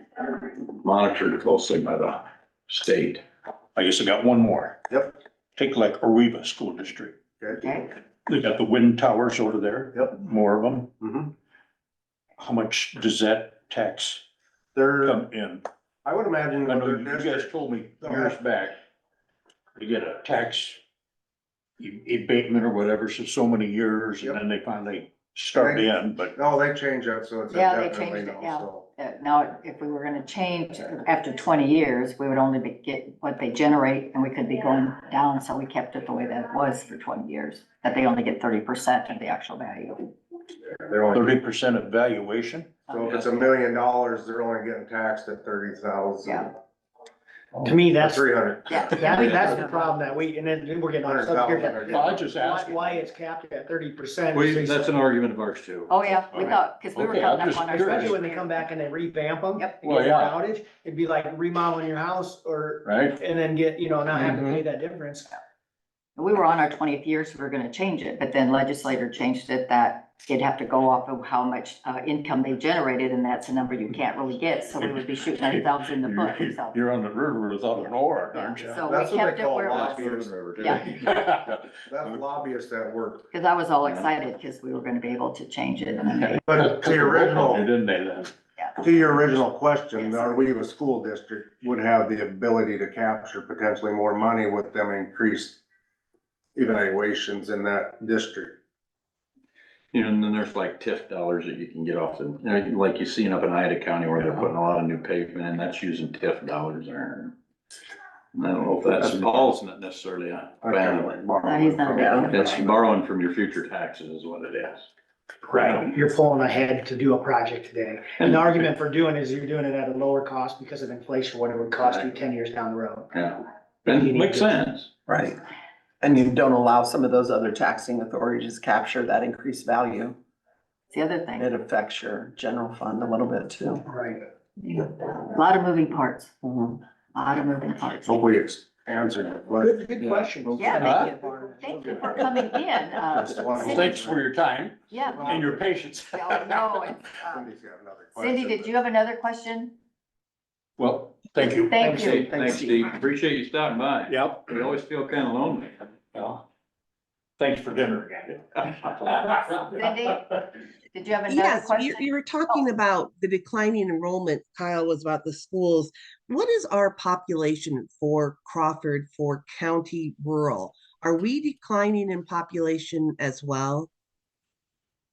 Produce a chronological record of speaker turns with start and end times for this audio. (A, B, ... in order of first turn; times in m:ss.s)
0:00.4-0:03.2 A
0:03.8-0:04.8 B
0:04.9-0:05.1 C
0:05.6-0:07.2 B
0:07.4-0:07.7 C
0:07.6-0:07.9 D
0:08.3-0:10.9 B
0:11.0-0:11.3 C
0:12.4-0:14.2 B
0:14.8-0:15.2 C
0:15.0-0:15.6 B
0:16.0-0:18.4 C
0:16.7-0:18.8 B
0:19.8-0:20.8 B
0:21.8-0:26.3 B
0:25.6-0:28.9 C
0:27.5-0:40.1 D
0:40.8-0:41.3 C
0:41.1-0:42.8 B
0:42.9-0:43.6 D
0:42.9-0:46.5 C
0:47.6-0:48.3 E
0:47.7-0:49.3 C
0:48.7-0:49.8 D
0:48.9-0:54.9 E
0:49.2-0:49.6 A
0:51.0-0:52.3 C
0:51.8-0:53.0 B
0:54.3-0:55.9 A
0:55.9-0:58.7 D
0:56.3-0:58.2 B
0:57.7-1:05.4 E
0:59.8-1:00.3 B
1:06.2-1:16.8 D
1:14.8-1:18.8 B
1:17.8-1:20.9 D
1:18.8-1:20.8 C
1:19.7-1:20.6 A
1:20.7-1:21.6 B
1:21.9-1:23.2 C
1:23.3-1:26.4 D
1:26.2-1:28.3 B
1:26.5-1:27.7 C
1:28.8-1:35.6 C
1:30.0-1:30.4 D
1:36.6-1:38.6 C
1:39.9-1:47.3 A
1:48.4-1:51.1 A
1:50.6-1:52.7 C
1:51.4-1:52.8 D
1:51.9-1:52.3 F
1:52.3-1:54.9 A
1:55.5-2:03.1 E
2:03.1-2:04.9 A
2:03.9-2:04.6 E
2:05.1-2:05.4 F
2:06.0-2:10.2 F
2:10.9-2:11.5 D
2:11.4-2:13.8 F
2:13.9-2:14.2 E
2:14.6-2:16.3 D
2:16.4-2:16.8 F
2:17.1-2:18.3 D
2:18.0-2:19.9 C
2:19.6-2:22.0 E
2:20.6-2:21.0 D
2:20.8-2:21.1 B
2:21.6-2:24.0 D
2:21.9-2:22.3 B
2:23.3-2:24.2 C
2:23.6-2:26.9 B
2:24.9-2:25.4 D
2:25.0-2:25.6 C
2:26.1-2:27.5 D
2:27.2-2:28.7 C
2:28.2-2:29.8 D
2:30.8-2:32.0 B
2:31.5-2:32.3 D
2:31.8-2:32.9 F
2:32.1-2:35.9 A
2:34.1-2:34.6 B
2:36.1-2:36.4 B
2:37.4-2:39.9 B
2:39.8-2:40.4 D
2:40.9-2:42.6 D
2:41.3-2:53.9 G